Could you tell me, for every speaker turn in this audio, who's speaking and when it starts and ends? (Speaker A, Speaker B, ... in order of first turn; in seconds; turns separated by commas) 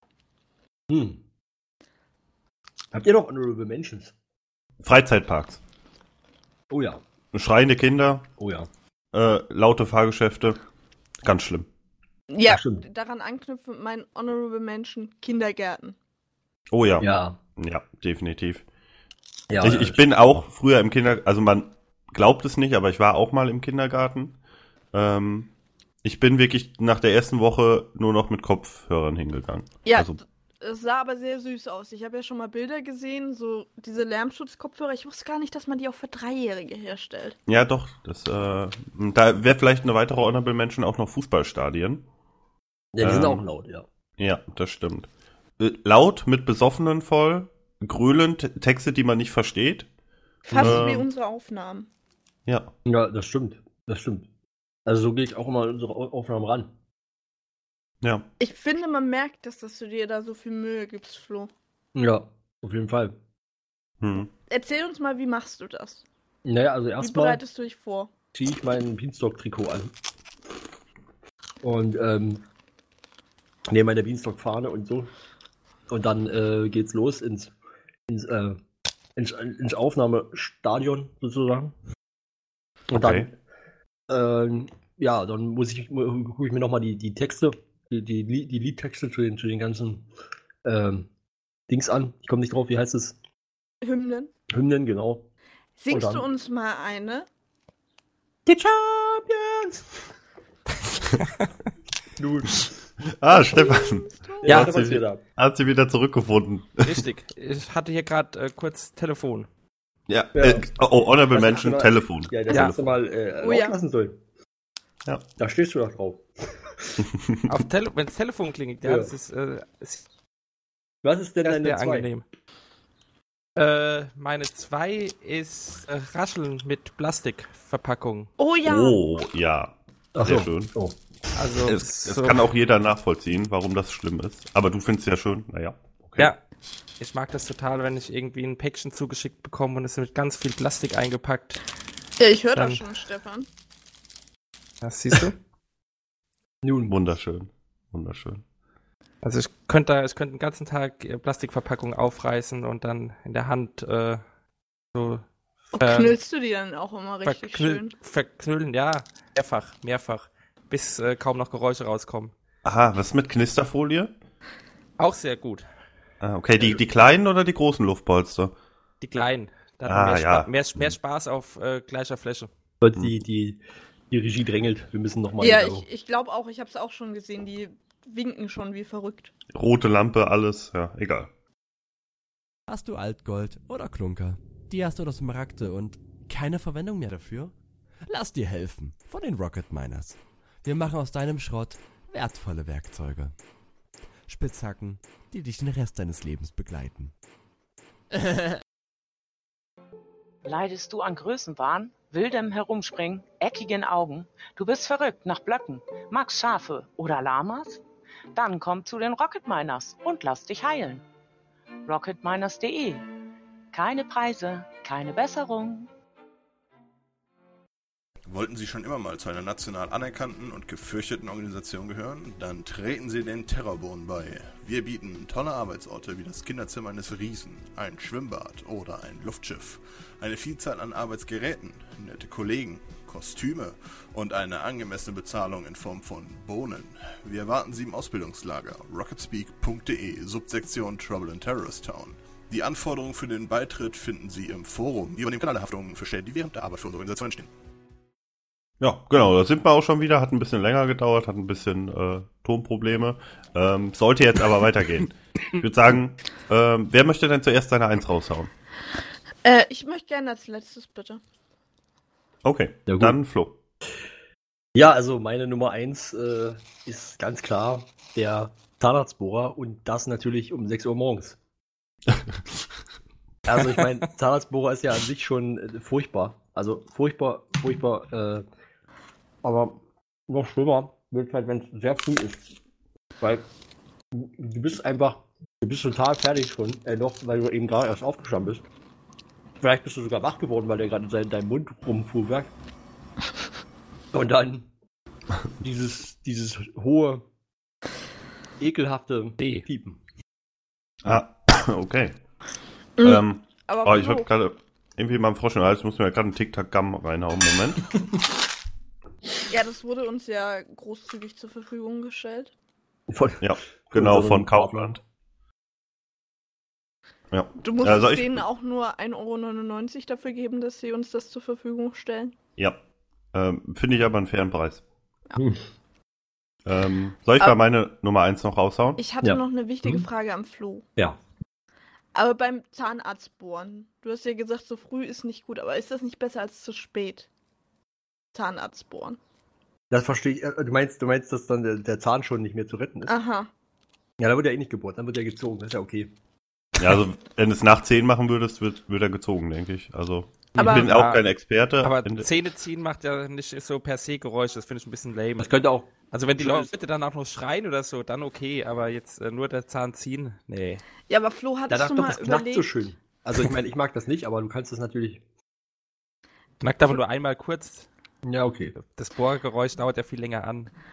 Speaker A: 0.9-1.2, Speaker A: 2.9-4.1, Speaker B: 4.8-5.6, Speaker A: 6.7-7.0, Speaker B: 7.3-8.3, Speaker A: 8.4-8.7, Speaker B: 9.1-10.6, Speaker B: 11.2-11.7, Speaker C: 12.3-15.9, Speaker A: 12.5-12.8, Speaker B: 16.7-18.6, Speaker A: 17.0-17.4, Speaker A: 19.5-20.0, Speaker B: 19.6-24.4, Speaker B: 24.9-25.5, Speaker B: 26.0-30.2, Speaker C: 29.8-37.4, Speaker B: 37.5-42.0, Speaker A: 42.9-43.8, Speaker B: 43.0-43.4, Speaker B: 44.2-49.9, Speaker C: 50.5-51.9, Speaker A: 50.5-50.8, Speaker B: 50.6-51.1, Speaker B: 52.5-52.7, Speaker A: 52.9-54.3, Speaker A: 54.9-56.7, Speaker B: 58.0-58.3, Speaker C: 58.4-61.5, Speaker A: 61.9-63.2, Speaker B: 64.0-64.3, Speaker C: 64.5-66.0, Speaker A: 66.4-67.4, Speaker C: 67.0-68.1, Speaker A: 68.3-69.9, Speaker A: 71.6-72.4, Speaker A: 73.7-75.1, Speaker A: 75.9-77.5, Speaker A: 78.1-78.6, Speaker A: 79.2-81.7, Speaker A: 82.9-83.3, Speaker B: 82.9-83.3, Speaker A: 84.1-90.1, Speaker A: 90.6-91.1, Speaker A: 91.7-93.2, Speaker C: 93.8-94.3, Speaker A: 94.5-95.3, Speaker C: 95.8-97.3, Speaker A: 95.9-96.2, Speaker A: 98.5-99.9, Speaker A: 102.2-102.6, Speaker B: 103.2-107.0, Speaker C: 103.4-104.7, Speaker A: 104.4-105.2, Speaker D: 106.8-109.5, Speaker B: 110.1-112.9, Speaker A: 110.3-110.7, Speaker A: 111.3-114.2, Speaker C: 113.4-113.8, Speaker A: 115.4-117.0, Speaker D: 117.5-120.0, Speaker A: 118.8-119.1, Speaker A: 121.0-122.1, Speaker D: 121.4-122.2, Speaker D: 123.5-128.3, Speaker C: 128.4-129.0, Speaker B: 128.6-130.7, Speaker A: 130.1-131.0, Speaker D: 131.3-132.5, Speaker B: 131.6-136.3, Speaker D: 137.0-141.6, Speaker C: 142.2-143.5, Speaker D: 142.5-142.8, Speaker D: 144.8-145.3, Speaker A: 146.6-146.9, Speaker B: 146.9-148.4, Speaker D: 149.2-154.2, Speaker D: 154.9-156.2, Speaker C: 155.8-157.9, Speaker D: 157.2-162.3, Speaker B: 162.6-164.1, Speaker D: 165.0-165.7, Speaker B: 166.2-168.5, Speaker D: 169.0-172.5, Speaker B: 169.8-170.9, Speaker A: 172.8-175.8, Speaker C: 175.4-179.3, Speaker B: 179.5-181.3, Speaker E: 182.7-187.5, Speaker E: 188.1-193.3, Speaker E: 194.3-197.1, Speaker F: 200.4-207.8, Speaker F: 208.3-211.0, Speaker F: 211.8-213.1, Speaker F: 213.7-215.9, Speaker G: 218.2-247.5, Speaker B: 248.8-258.5, Speaker C: 259.4-261.2, Speaker B: 262.4-263.6, Speaker A: 262.9-263.2, Speaker A: 264.8-271.4, Speaker A: 273.4-278.4, Speaker A: 279.4-282.5, Speaker A: 283.2-283.4, Speaker A: 284.1-288.6, Speaker A: 289.6-292.5, Speaker A: 294.1-294.7, Speaker A: 295.6-297.2, Speaker A: 298.6-300.0, Speaker D: 299.4-299.6, Speaker B: 301.0-302.1, Speaker C: 303.0-304.3, Speaker B: 303.0-307.9, Speaker C: 309.5-312.5, Speaker A: 313.1-314.9, Speaker B: 313.4-315.0, Speaker B: 317.3-318.4, Speaker C: 317.6-322.4, Speaker B: 323.3-324.8, Speaker A: 325.4-325.6, Speaker B: 326.6-329.0, Speaker C: 329.0-330.9, Speaker A: 329.2-330.1, Speaker C: 332.1-337.3, Speaker C: 338.3-339.2, Speaker A: 339.9-343.1, Speaker C: 343.1-343.5, Speaker A: 344.2-346.1, Speaker B: 346.8-352.3, Speaker C: 350.6-350.9, Speaker D: 350.7-351.2, Speaker D: 351.8-355.5, Speaker A: 355.4-356.7, Speaker D: 356.1-360.8, Speaker C: 361.1-362.7, Speaker A: 361.7-365.2, Speaker D: 366.6-367.9, Speaker A: 368.2-368.7, Speaker D: 368.8-370.7